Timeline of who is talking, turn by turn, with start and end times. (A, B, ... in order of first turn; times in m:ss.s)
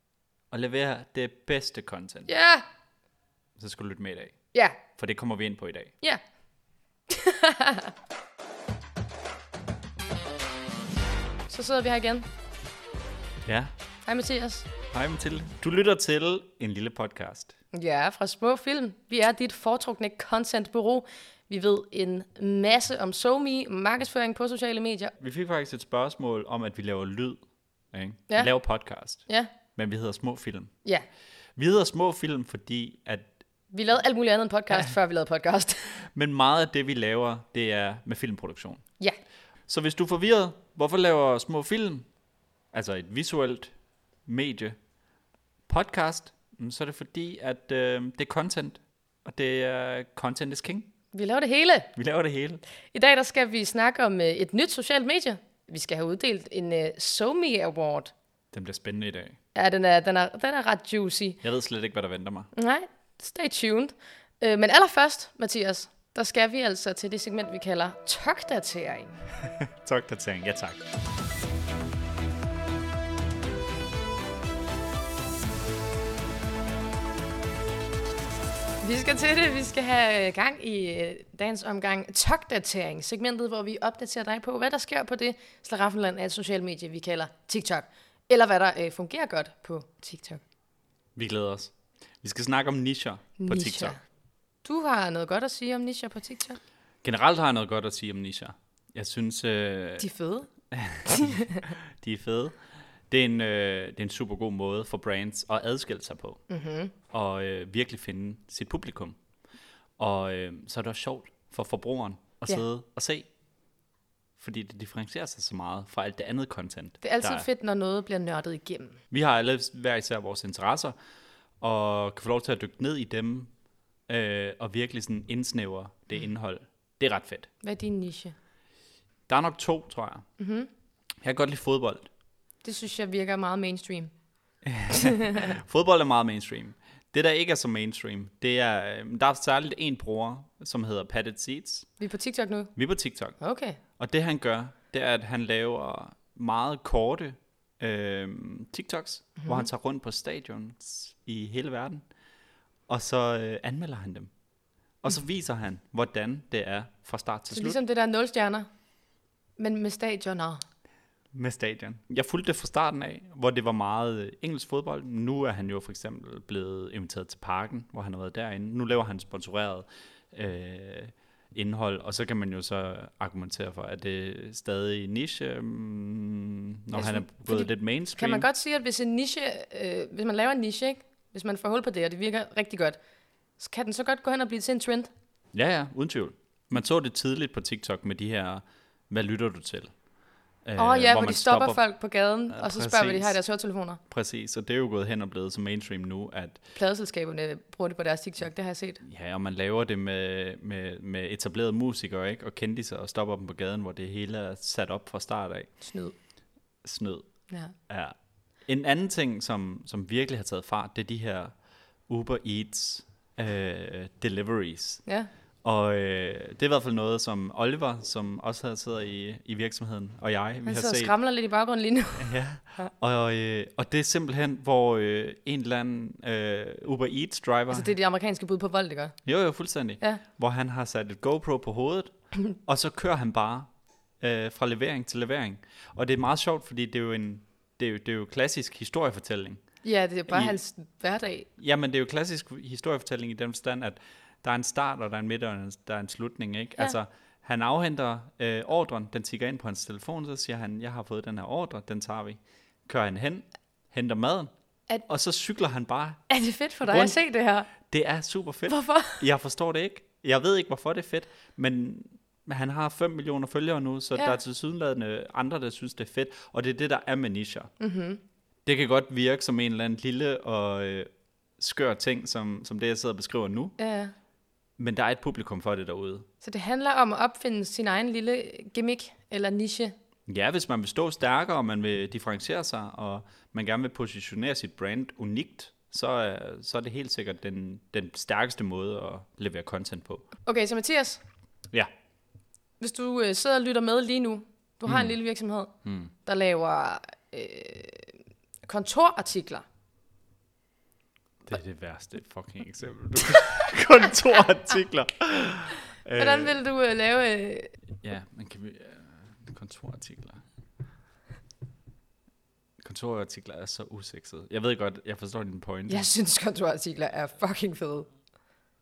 0:00.5-0:02.3 A
0:02.3-0:02.6 B
0:03.6-0:04.3 A
0:04.5-0:04.8 B
0:05.0-0:05.9 A
0:07.1-0:07.9 B
0:11.5-0:12.3 B
0:13.5-0:13.7 A
0:14.1-0:14.7 B
0:14.9-0:17.6 A
0:17.7-0:25.1 B
0:25.2-0:30.7 A
0:29.3-0:29.5 B
0:31.6-0:33.3 A
0:33.7-0:35.9 B
0:36.1-0:38.8 A
0:39.7-0:42.1 A
0:42.7-0:43.7 A
0:44.3-0:44.8 A
0:45.7-0:50.9 A
0:51.1-0:51.9 B
0:52.0-0:52.6 A
0:52.9-0:58.1 B
0:58.5-0:59.4 A
0:59.6-1:01.4 B
1:01.4-1:02.5 A
1:02.5-1:09.2 B
1:09.8-1:10.8 A
1:18.8-1:30.4 B
1:31.2-1:34.0 A
1:33.4-1:34.0 B
1:34.6-1:36.6 B
1:37.0-1:40.1 A
1:40.0-1:40.5 B
1:40.7-1:42.6 A
1:41.1-1:41.6 B
1:43.1-1:46.4 A
1:46.5-1:46.9 B
1:47.1-1:49.2 A
1:50.0-1:53.3 A
1:54.4-1:57.5 A
1:57.0-1:59.0 B
1:59.1-2:01.0 A
2:01.6-2:03.5 A
2:04.1-2:07.5 A
2:07.6-2:08.4 B
2:09.3-2:10.3 A
2:10.4-2:10.7 B
2:11.2-2:12.1 A
2:12.6-2:14.1 B
2:14.6-2:21.9 A
2:14.9-2:15.5 B
2:22.0-2:22.7 B
2:22.8-2:23.4 A
2:23.4-2:23.8 B
2:24.0-2:32.0 A
2:32.9-2:34.3 A
2:35.0-2:37.8 A
2:37.5-2:38.7 B
2:39.6-2:40.6 B
2:41.3-2:58.5 A
2:56.9-3:03.0 B
3:03.6-3:05.1 B
3:05.5-3:09.9 A
3:10.6-3:11.8 A
3:10.8-3:14.0 B
3:12.5-3:13.4 A
3:14.1-3:16.6 A
3:16.8-3:19.0 B
3:19.0-3:25.7 A
3:25.8-3:26.2 B
3:26.8-3:27.3 A
3:27.5-3:27.8 B
3:27.9-3:31.5 A
3:32.1-3:35.0 A
3:35.1-3:35.3 B
3:35.6-3:41.1 A
3:40.7-3:42.9 B
3:42.2-3:47.9 A
3:47.7-3:49.2 B
3:49.2-3:59.6 A
3:59.8-4:01.5 B
4:00.3-4:00.6 A
4:01.6-4:14.5 A
4:15.1-4:16.2 A
4:16.3-4:17.7 B
4:16.8-4:17.2 A
4:17.8-4:27.7 A
4:18.7-4:19.2 B
4:27.8-4:28.2 B
4:28.7-4:33.8 A
4:33.8-4:34.1 B
4:34.8-4:36.3 A
4:36.4-4:39.9 B
4:40.3-4:50.3 A
4:50.5-4:51.2 B
4:52.8-4:55.7 B
4:54.9-4:55.2 A
4:55.8-4:56.1 A
4:56.3-4:59.6 B
5:01.5-5:06.6 A
5:06.1-5:07.7 B
5:08.0-5:10.4 A
5:12.8-5:16.1 A
5:15.9-5:18.1 B